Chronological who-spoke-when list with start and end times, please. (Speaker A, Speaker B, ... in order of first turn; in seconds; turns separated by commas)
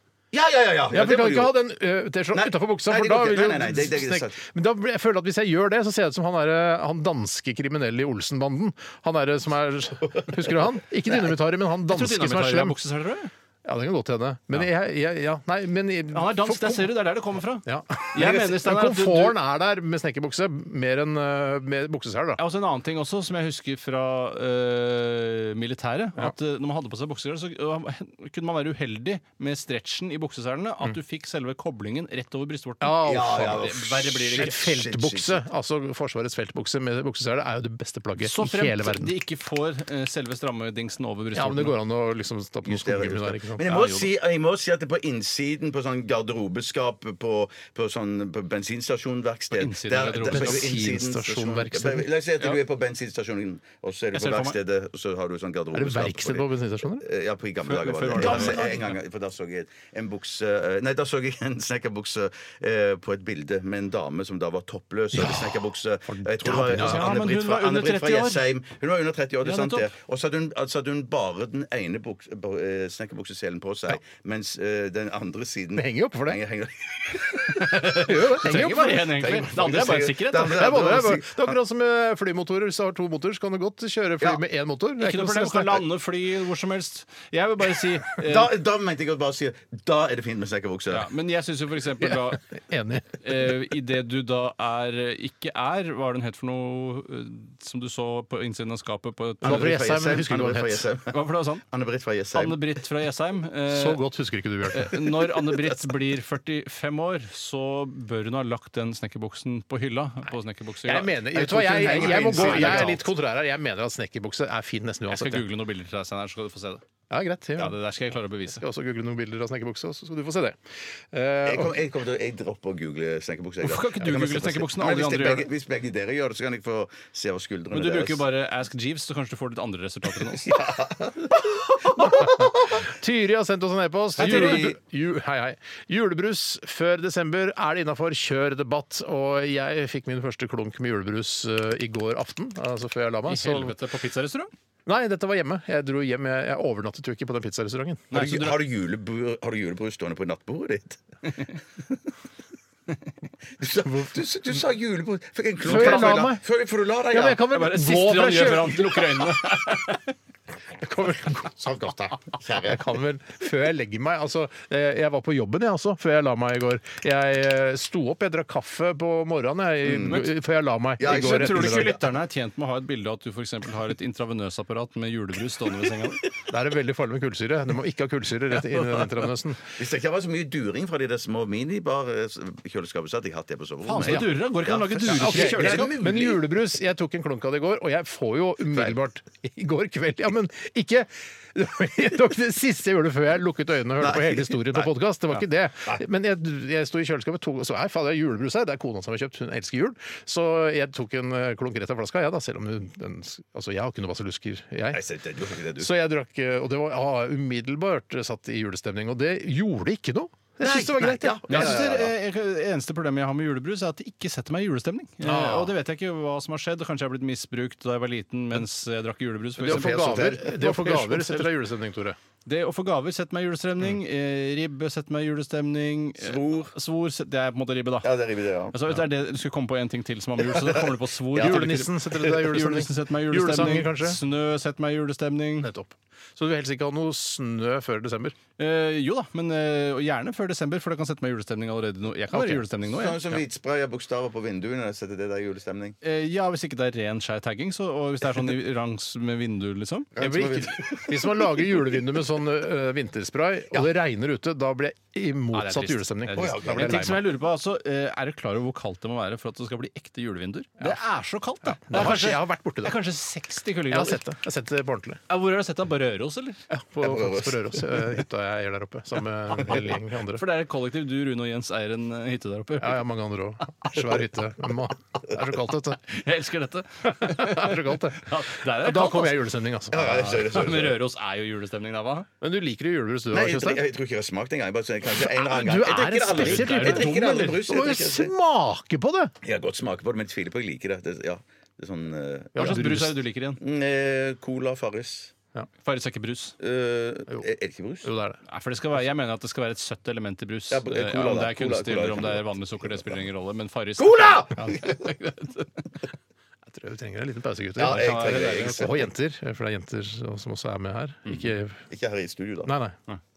Speaker A: 0.3-1.5, Speaker B: 0.9-12.8, Speaker A: 2.3-4.4, Speaker A: 10.1-10.3, Speaker C: 11.9-13.3, Speaker B: 13.7-17.0, Speaker C: 16.1-19.4, Speaker B: 17.6-22.4, Speaker C: 22.4-34.6, Speaker B: 32.8-33.7, Speaker A: 33.0-35.4, Speaker B: 34.3-39.1, Speaker C: 38.2-41.8, Speaker B: 41.3-43.7, Speaker A: 42.6-56.5, Speaker C: 43.6-44.1, Speaker C: 49.5-50.8, Speaker B: 50.2-52.1, Speaker C: 54.1-54.6, Speaker B: 55.7-57.0, Speaker A: 57.0-77.8, Speaker C: 57.6-59.0, Speaker B: 58.2-58.7, Speaker B: 65.1-67.2, Speaker C: 66.5-68.5, Speaker C: 69.4-69.9, Speaker B: 75.8-76.4, Speaker C: 77.5-80.6, Speaker B: 77.7-79.3, Speaker A: 78.5-81.6, Speaker B: 80.3-85.9, Speaker C: 85.0-88.5, Speaker A: 88.1-91.1, Speaker C: 90.9-92.5, Speaker B: 92.0-93.2, Speaker C: 93.2-99.8, Speaker B: 99.4-100.9, Speaker A: 99.4-102.6, Speaker C: 101.1-101.6, Speaker C: 102.3-104.0, Speaker B: 103.7-105.1, Speaker C: 104.7-113.0, Speaker B: 110.8-115.5, Speaker A: 111.4-113.0, Speaker C: 115.1-116.8, Speaker B: 117.1-117.8, Speaker C: 117.6-118.6, Speaker B: 118.5-121.8, Speaker A: 121.4-128.2, Speaker C: 123.6-125.5, Speaker C: 127.7-130.6, Speaker A: 130.4-132.8, Speaker B: 132.0-143.8, Speaker A: 134.2-134.8, Speaker C: 134.2-134.7, Speaker C: 143.3-144.5, Speaker B: 144.9-148.1, Speaker C: 148.1-148.6, Speaker A: 148.1-151.0, Speaker A: 153.6-157.4, Speaker B: 155.6-156.4, Speaker C: 155.7-156.2, Speaker B: 157.1-159.3, Speaker C: 157.5-160.1, Speaker B: 160.8-172.0, Speaker A: 161.8-162.9, Speaker A: 169.8-170.2, Speaker A: 171.0-172.0, Speaker C: 171.0-176.3, Speaker B: 176.5-179.7, Speaker A: 179.7-186.5, Speaker C: 183.9-185.9, Speaker B: 185.1-205.0, Speaker A: 194.0-194.9, Speaker A: 204.9-205.9, Speaker B: 205.8-211.9, Speaker A: 210.6-212.1, Speaker C: 211.5-220.5, Speaker B: 215.2-215.7, Speaker A: 219.6-221.3, Speaker B: 219.6-222.2, Speaker C: 222.4-228.1, Speaker A: 226.2-226.7, Speaker A: 228.0-228.8, Speaker C: 228.7-235.7, Speaker B: 231.3-234.2, Speaker B: 235.6-238.4, Speaker C: 238.6-243.4, Speaker B: 242.3-242.6, Speaker A: 242.8-246.0, Speaker C: 246.0-250.1, Speaker A: 250.2-251.9, Speaker B: 250.2-257.2, Speaker C: 255.5-264.2, Speaker A: 256.4-257.1, Speaker B: 261.7-263.0, Speaker B: 263.9-265.2, Speaker C: 265.3-266.6, Speaker B: 266.7-270.4, Speaker A: 267.0-268.2, Speaker C: 270.3-273.1, Speaker B: 272.8-276.0, Speaker C: 276.0-279.4, Speaker B: 277.1-280.5, Speaker A: 279.9-281.0, Speaker C: 280.0-282.3, Speaker B: 282.4-283.8, Speaker A: 283.3-288.3, Speaker B: 285.2-289.3, Speaker C: 286.4-287.5, Speaker A: 289.4-293.0, Speaker B: 292.6-293.1, Speaker C: 292.6-293.6, Speaker A: 293.6-295.3, Speaker C: 295.8-296.6, Speaker A: 296.6-298.1, Speaker B: 298.0-298.4, Speaker C: 298.5-305.7, Speaker A: 300.7-303.1, Speaker A: 304.0-305.1, Speaker B: 306.7-311.8, Speaker A: 307.8-309.1, Speaker C: 307.8-309.0, Speaker A: 311.9-312.7, Speaker B: 312.6-313.0